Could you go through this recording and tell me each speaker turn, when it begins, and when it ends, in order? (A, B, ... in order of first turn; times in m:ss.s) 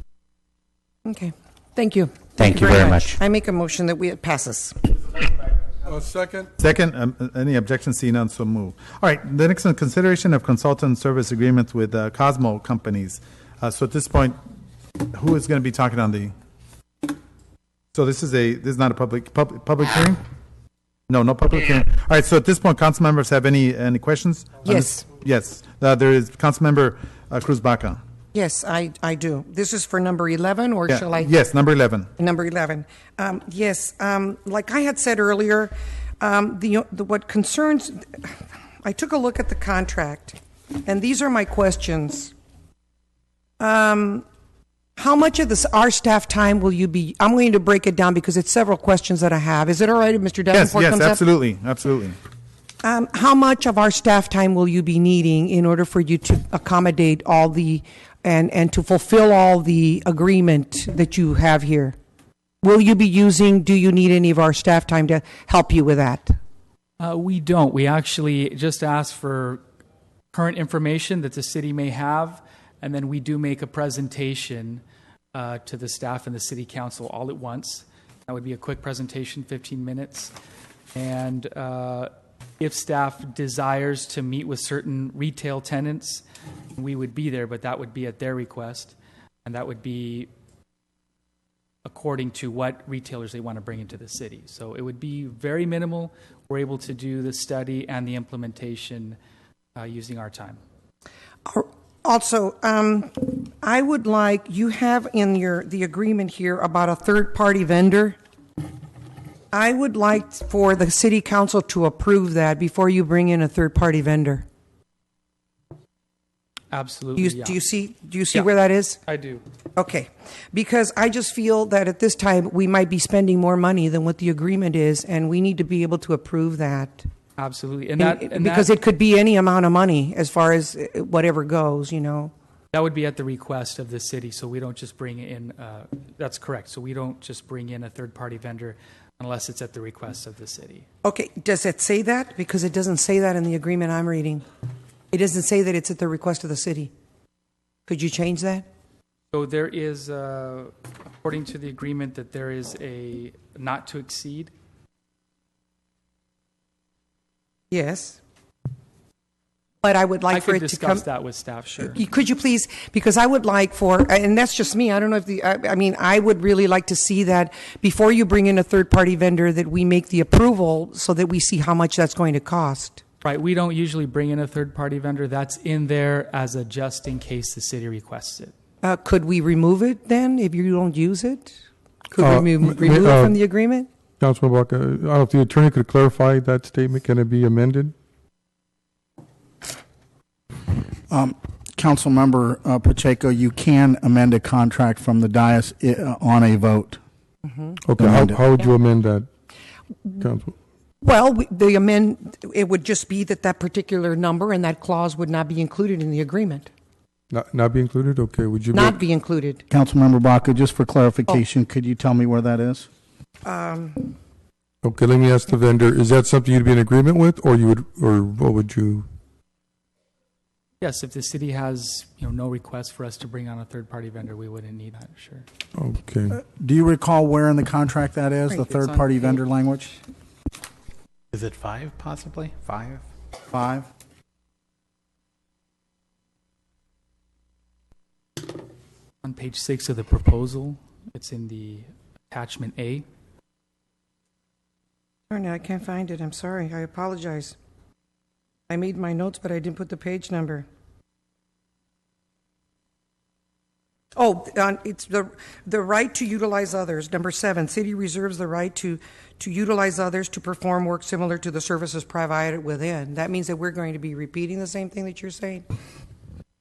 0:01.0-0:05.2 A
0:02.4-0:03.2 B
0:05.9-0:06.5 C
0:06.6-0:14.4 D
0:15.1-0:16.3 D
0:17.9-0:20.2 D
0:21.1-0:28.0 D
0:24.6-0:25.1 A
0:28.3-0:31.3 A
0:30.9-0:32.1 D
0:32.2-0:42.3 A
0:43.6-0:44.2 A
0:45.0-0:51.2 A
0:50.5-0:52.2 D
0:52.8-1:02.0 A
1:02.6-1:06.4 A
1:07.0-1:09.6 E
1:10.3-1:14.8 E
1:15.3-1:20.3 E
1:20.9-1:26.2 E
1:26.8-1:30.3 E
1:31.8-1:39.2 E
1:39.8-1:40.6 E
1:41.5-1:48.2 A
1:49.5-1:54.4 A
1:56.7-1:57.6 E
1:57.2-1:59.0 A
1:59.1-1:59.4 E
1:59.8-2:07.0 A
2:07.4-2:08.7 E
2:08.0-2:12.3 A
2:12.7-2:20.8 E
2:21.0-2:24.4 A
2:25.1-2:26.9 A
2:27.9-2:28.7 A
2:29.3-2:34.5 E
2:37.7-2:38.2 A
2:39.8-2:41.1 A
2:40.3-2:42.0 E
2:41.8-2:53.0 A
2:53.2-2:58.5 E
2:58.8-3:01.6 A
3:02.1-3:03.9 A
3:02.2-3:03.4 C
3:04.2-3:07.9 C
3:11.1-3:17.0 F
3:17.5-3:17.8 A
3:17.8-3:19.3 C
3:18.0-3:18.4 F
3:20.2-3:20.5 C
3:21.0-3:26.7 A
3:27.3-3:29.0 C
3:28.7-3:29.6 A
3:29.7-3:32.9 F
3:33.4-3:34.1 A
3:34.8-3:39.1 C
3:40.8-3:45.5 E
3:45.8-3:46.4 C
3:46.3-3:50.0 F
3:48.6-3:49.4 E
3:51.3-3:53.0 B
3:53.5-3:53.9 F
3:59.2-4:03.1 E
4:05.3-4:07.6 A
4:08.7-4:10.7 A
4:14.2-4:25.6 A